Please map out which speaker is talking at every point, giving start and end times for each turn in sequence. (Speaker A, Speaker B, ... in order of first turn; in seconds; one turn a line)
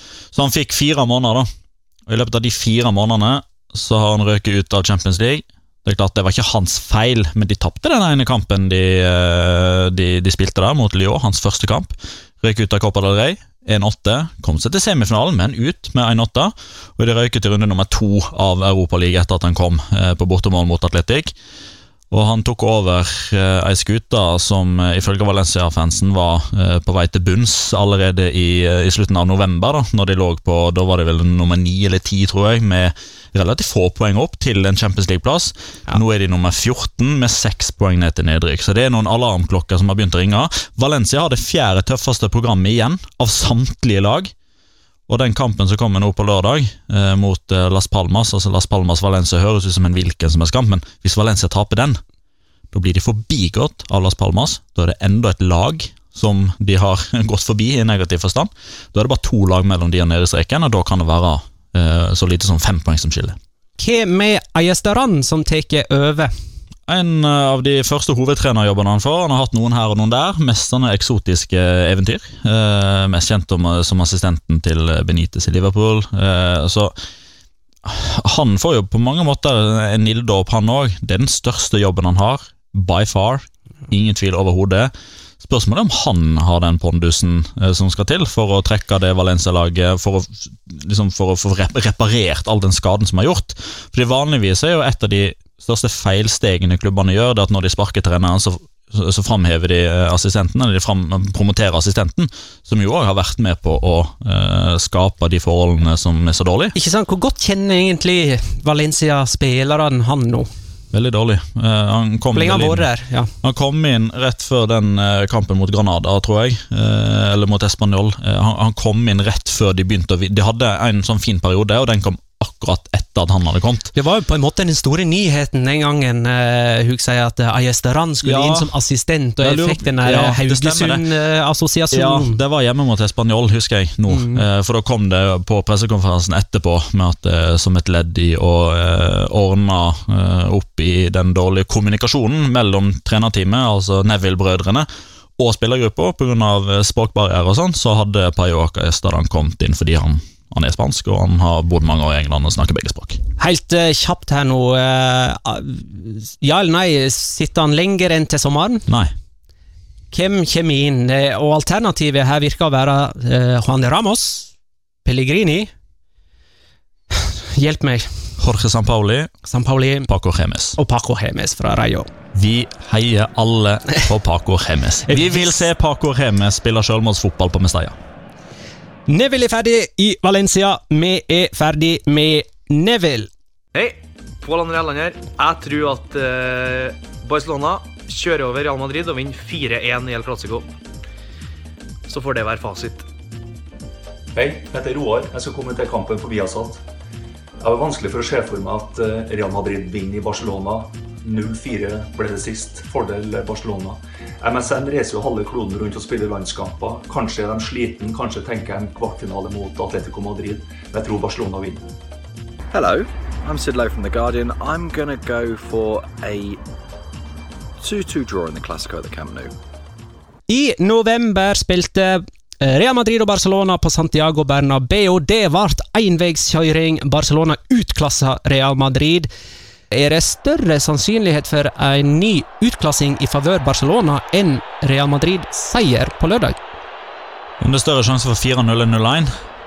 Speaker A: 0.3-1.5
Speaker A: 2.1-21.3
Speaker A: 22.1-44.3
Speaker A: 45.1-52.0
Speaker A: 52.7-63.4
Speaker B: 63.8-66.3
Speaker A: 66.9-77.0
Speaker A: 77.8-106.8
Speaker B: 106.8-110.5
Speaker A: 110.9-112.9
Speaker B: 112.3-113.3
Speaker A: 113.4-123.9
Speaker B: 123.9-132.4
Speaker A: 128.2-128.7
Speaker A: 129.4-131.0
Speaker A: 131.9-153.2
Speaker B: 134.1-134.4
Speaker B: 153.4-158.8
Speaker A: 158.9-159.1
Speaker B: 160.1-164.5
Speaker B: 165.0-165.7
Speaker B: 167.1-168.1
Speaker A: 168.4-169.3
Speaker B: 169.5-170.1
Speaker A: 170.1-170.8
Speaker B: 170.8-172.1
Speaker A: 172.3-178.0
Speaker B: 175.1-175.7
Speaker B: 179.1-183.3
Speaker C: 183.7-190.7
Speaker C: 192.1-193.1
Speaker D: 194.3-196.8
Speaker D: 197.6-211.8
Speaker E: 212.7-216.6
Speaker E: 217.8-219.5
Speaker B: 220.5-229.3
Speaker B: 229.9-236.6
Speaker A: 237.6-239.3